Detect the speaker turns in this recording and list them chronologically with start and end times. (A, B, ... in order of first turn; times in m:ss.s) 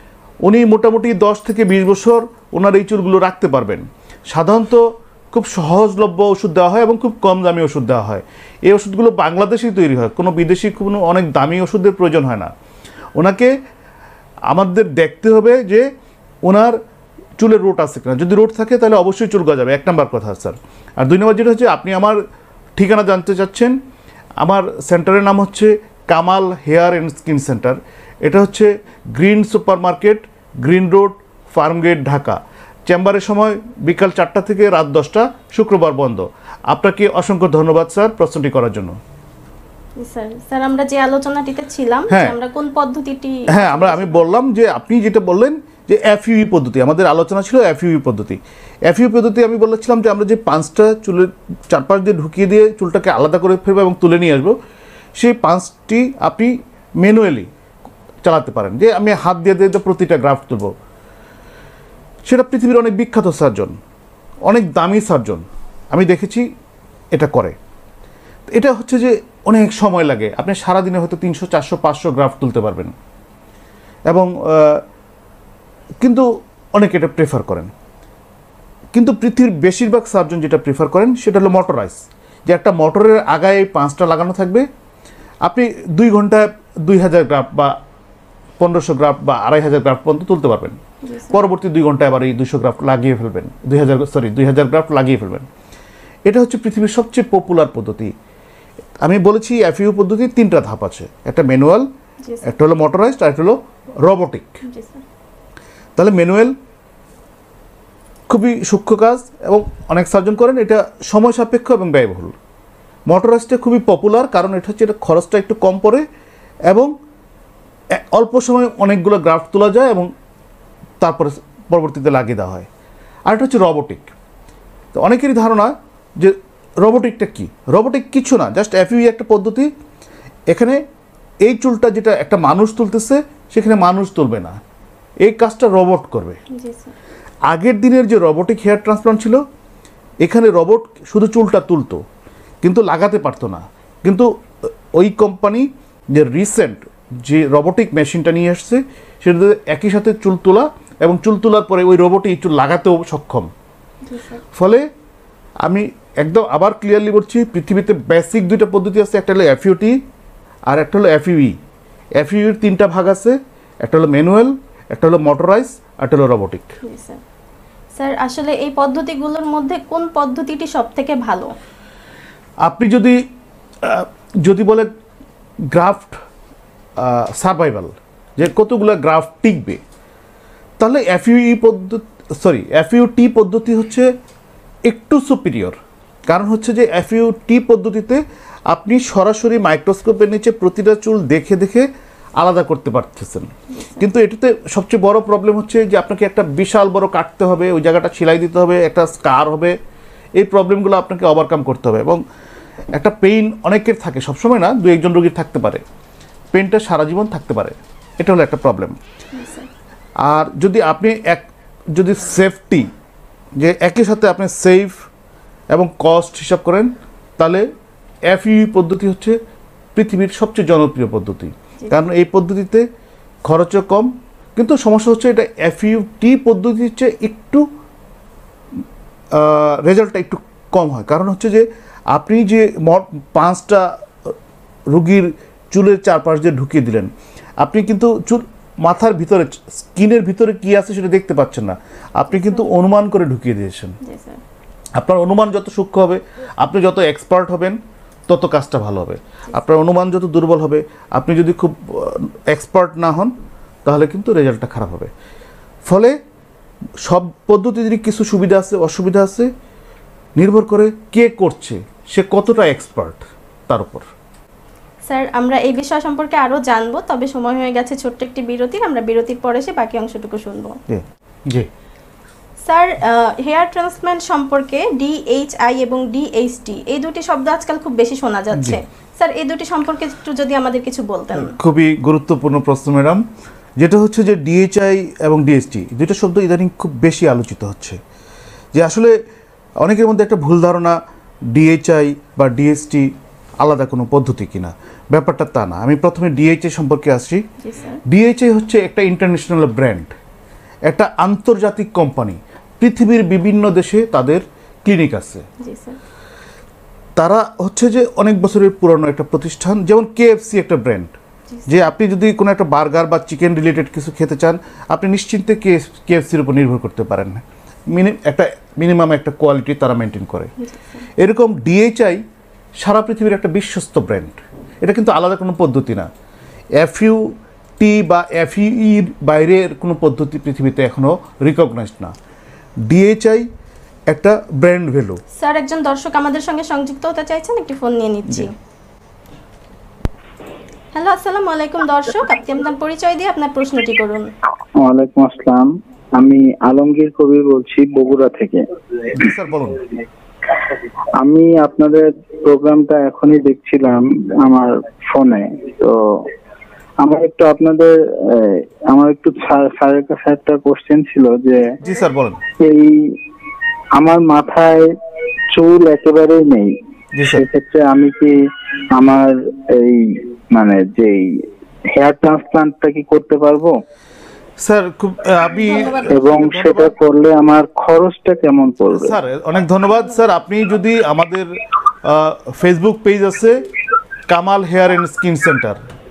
0:00.5-0:12.5 A
0:13.2-0:13.6 A
0:14.5-0:15.9 A
0:16.5-0:16.8 A
0:17.4-0:22.2 A
0:22.8-0:23.8 A
0:24.4-0:39.0 A
0:40.0-0:44.2 B
0:42.1-0:42.4 A
0:43.5-0:54.6 A
0:55.2-0:57.5 A
0:58.2-1:00.7 A
1:02.3-1:03.8 A
1:04.5-1:06.5 A
1:07.1-1:07.6 A
1:08.5-1:13.0 A
1:14.1-1:14.8 A
1:16.0-1:17.7 A
1:18.9-1:24.7 A
1:25.4-1:27.8 A
1:28.6-1:30.8 A
1:31.0-1:31.4 B
1:31.3-1:35.5 A
1:36.3-1:38.1 A
1:39.0-1:41.9 A
1:42.2-1:42.5 B
1:42.4-1:44.6 A
1:44.6-1:45.0 B
1:46.0-1:46.6 A
1:48.3-1:52.4 A
1:53.1-1:56.0 A
1:56.7-1:56.9 A
1:57.9-2:00.1 A
2:01.0-2:02.7 A
2:03.3-2:04.1 A
2:04.9-2:09.7 A
2:10.5-2:10.8 A
2:11.4-2:14.6 A
2:15.2-2:16.4 A
2:16.5-2:16.9 B
2:17.5-2:19.4 A
2:20.2-2:22.0 A
2:22.6-2:24.3 A
2:24.9-2:33.5 A
2:34.1-2:34.4 B
2:34.5-2:34.9 A
2:35.6-2:40.0 A
2:40.7-2:41.6 A
2:42.2-2:46.8 A
2:46.8-2:47.2 B
2:48.0-2:51.5 B
2:52.6-2:53.3 A
2:53.8-2:54.9 A
2:55.7-2:56.2 A
2:57.0-2:59.8 A
3:00.8-3:04.1 A
3:04.9-3:11.9 A
3:12.4-3:19.8 A
3:13.7-3:14.0 B
3:20.4-3:22.2 A
3:22.9-3:25.8 A
3:26.5-3:29.0 A
3:29.4-3:29.7 B
3:30.2-3:32.9 A
3:33.6-3:35.0 A
3:35.7-3:37.7 A
3:38.3-3:39.4 A
3:40.0-3:42.8 A
3:43.5-3:47.7 A
3:49.3-3:54.4 A
3:54.9-4:04.0 A
4:02.3-4:02.7 B
4:04.0-4:04.4 B
4:05.0-4:13.3 A
4:13.8-4:15.1 A
4:15.9-4:16.2 A
4:17.0-4:19.5 A
4:20.4-4:24.1 A
4:25.1-4:30.8 B
4:30.9-4:31.7 A
4:32.7-4:41.6 B
4:38.5-4:38.8 A
4:41.4-4:43.2 A
4:43.8-4:48.0 A
4:48.7-4:49.2 A
4:49.8-4:51.0 A
4:51.5-4:57.4 A
4:57.6-4:58.0 B
4:58.1-5:00.1 A
5:00.9-5:05.4 A
5:05.6-5:06.0 B
5:07.2-5:11.1 A
5:11.5-5:11.8 B
5:11.7-5:20.5 A
5:20.6-5:21.0 B
5:21.2-5:22.2 A
5:22.8-5:26.1 A
5:26.8-5:32.1 A
5:32.9-5:33.5 A
5:34.1-5:35.2 A
5:35.4-5:38.5 B
5:41.0-5:44.3 B
5:44.8-5:48.6 C
5:49.2-5:49.8 A
5:51.2-5:56.3 C
5:57.0-6:01.8 C
6:01.8-6:02.4 A
6:02.6-6:03.2 C
6:04.0-6:04.9 C
6:05.5-6:06.7 C
6:07.2-6:07.4 A
6:07.2-6:08.4 C
6:08.9-6:13.8 C
6:14.6-6:16.9 A
6:15.6-6:16.1 B
6:16.1-6:19.2 C
6:18.9-6:21.5 A
6:22.0-6:23.6 A
6:24.3-6:25.8 A